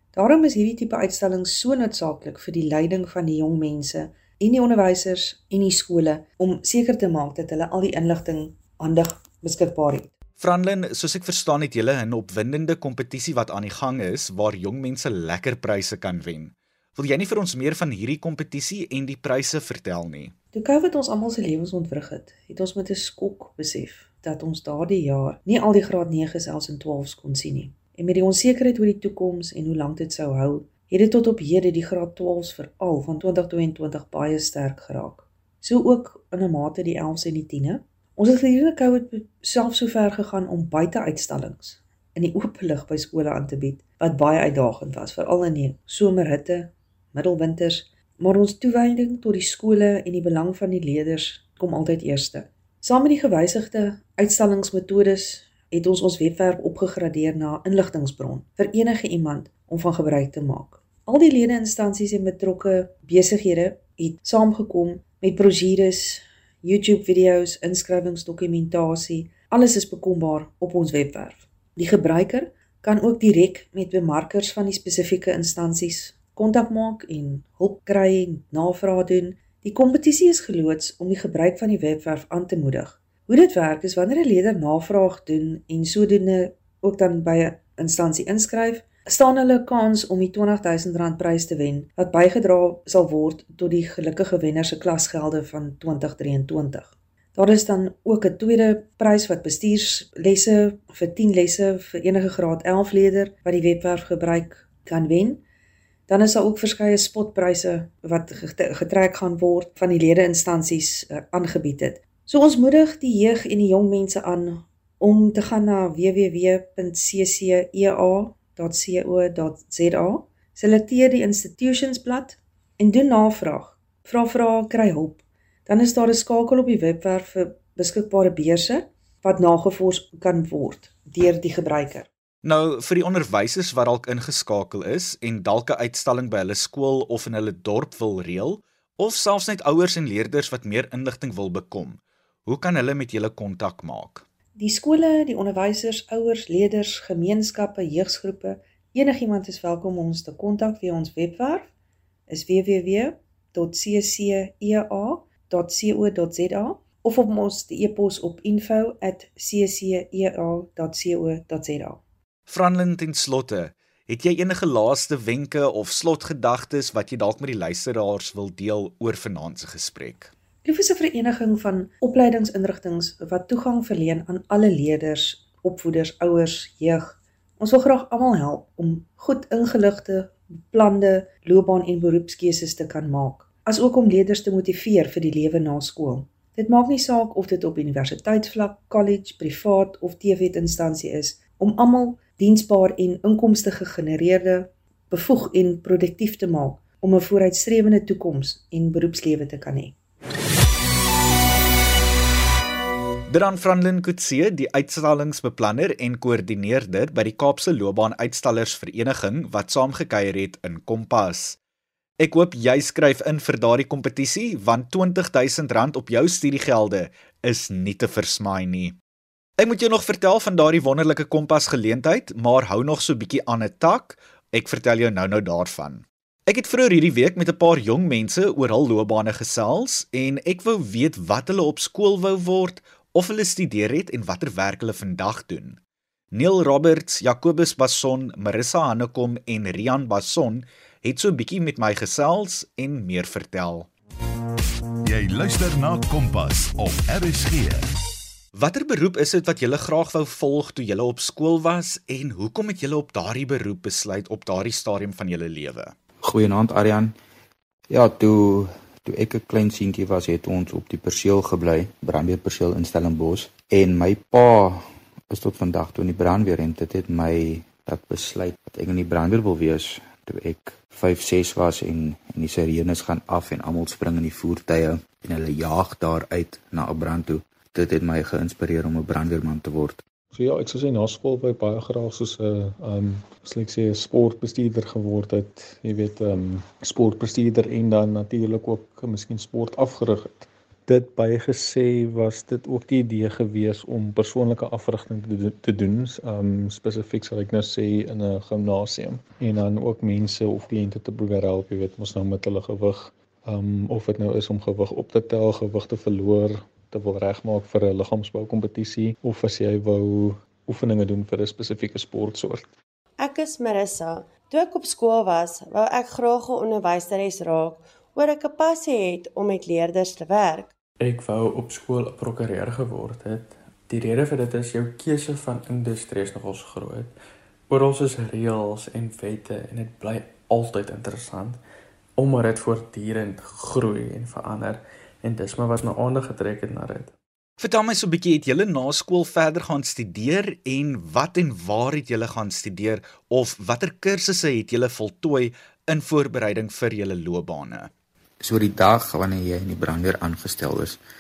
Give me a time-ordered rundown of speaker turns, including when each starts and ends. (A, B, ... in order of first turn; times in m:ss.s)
0:00.1-0:10.1 A
0:10.4-0:20.3 B
0:20.5-1:45.4 A
1:46.1-2:12.1 A
2:12.4-2:24.2 B
2:24.6-2:31.7 A
2:32.3-2:42.0 A
2:42.5-2:50.3 B
2:50.6-3:19.9 A
3:23.3-3:31.6 B
3:32.2-3:39.0 B
3:39.6-3:55.8 B
3:56.3-4:03.9 B
4:05.0-4:07.9 C
4:08.5-4:15.9 B
4:16.2-4:17.2 D
4:17.9-4:40.0 D
4:40.3-5:12.7 E
5:13.2-5:20.7 F
5:21.0-5:27.1 G
5:27.7-5:31.6 G
5:32.2-5:37.1 G
5:37.6-5:47.9 B
5:48.4-5:51.0 D